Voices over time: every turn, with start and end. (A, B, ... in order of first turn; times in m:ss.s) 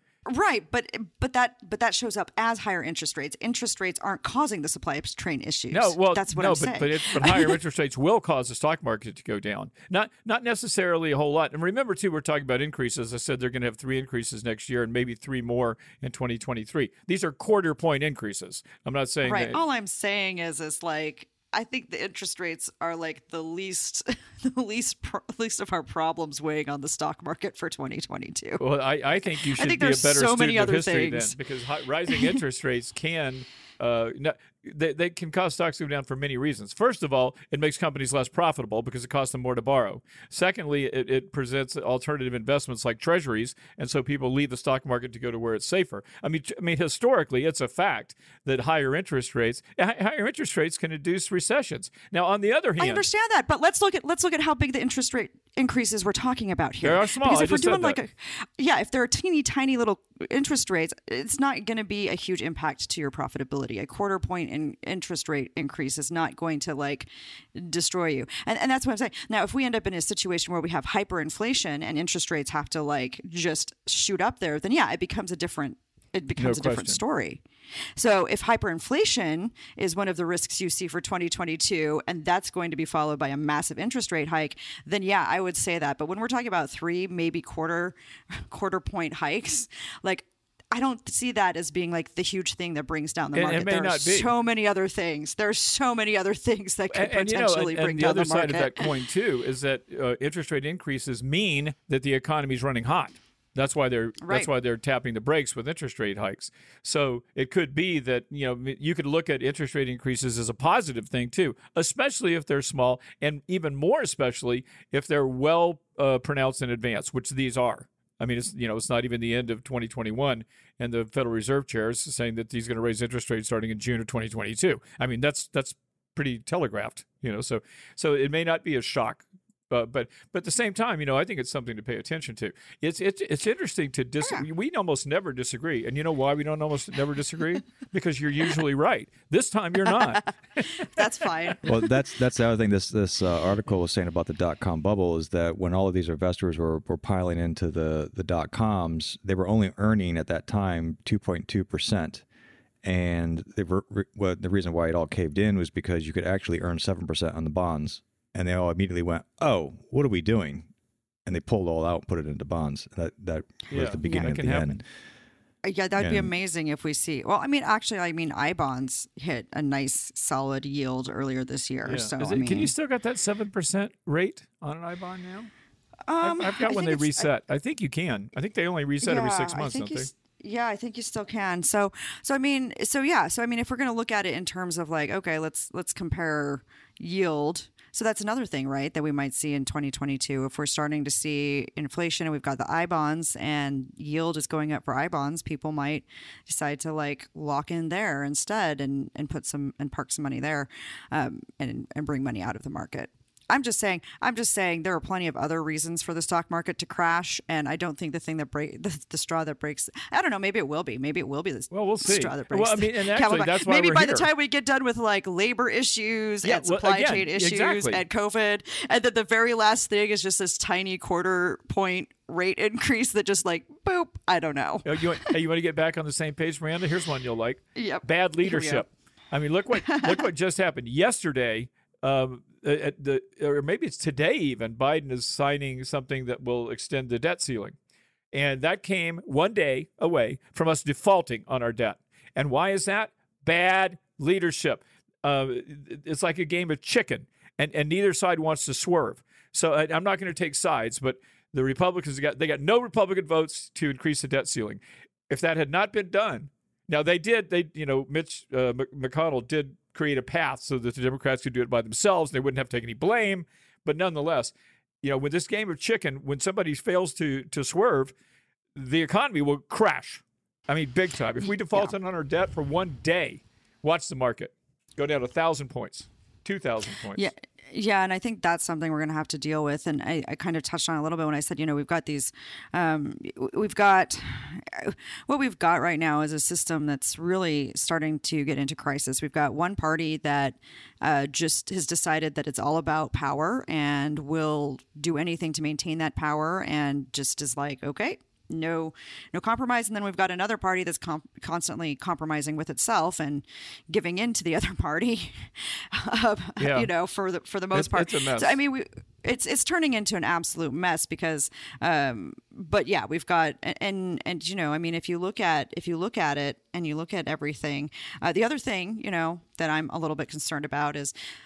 0:00.2-0:07.6 A
0:05.7-0:19.6 B
0:19.2-0:28.6 A
0:28.6-0:53.0 B
0:29.4-0:31.4 A
0:32.1-0:32.4 A
0:52.8-1:17.4 A
0:56.8-0:58.0 B
1:16.4-1:17.0 B
1:18.0-1:38.9 A
1:33.3-1:34.3 B
1:36.9-2:21.2 B
1:44.2-1:44.5 A
2:20.7-2:21.9 A
2:21.6-2:32.2 C
2:32.8-2:40.7 C
2:41.2-2:44.8 C
2:43.7-2:44.8 B
2:44.0-2:44.4 A
2:45.6-2:52.7 A
2:46.0-2:46.3 C
2:51.8-2:55.5 B
2:56.1-2:57.3 A
2:56.2-3:00.1 B
2:59.0-3:45.3 A
3:31.7-3:34.3 B
3:36.4-3:38.0 B
3:44.8-3:57.8 B
3:47.8-3:48.8 A
3:49.7-3:50.2 A
3:58.3-4:28.1 B
4:28.7-4:37.3 B
4:37.1-5:21.1 A
5:06.6-5:06.9 B
5:07.7-5:08.6 B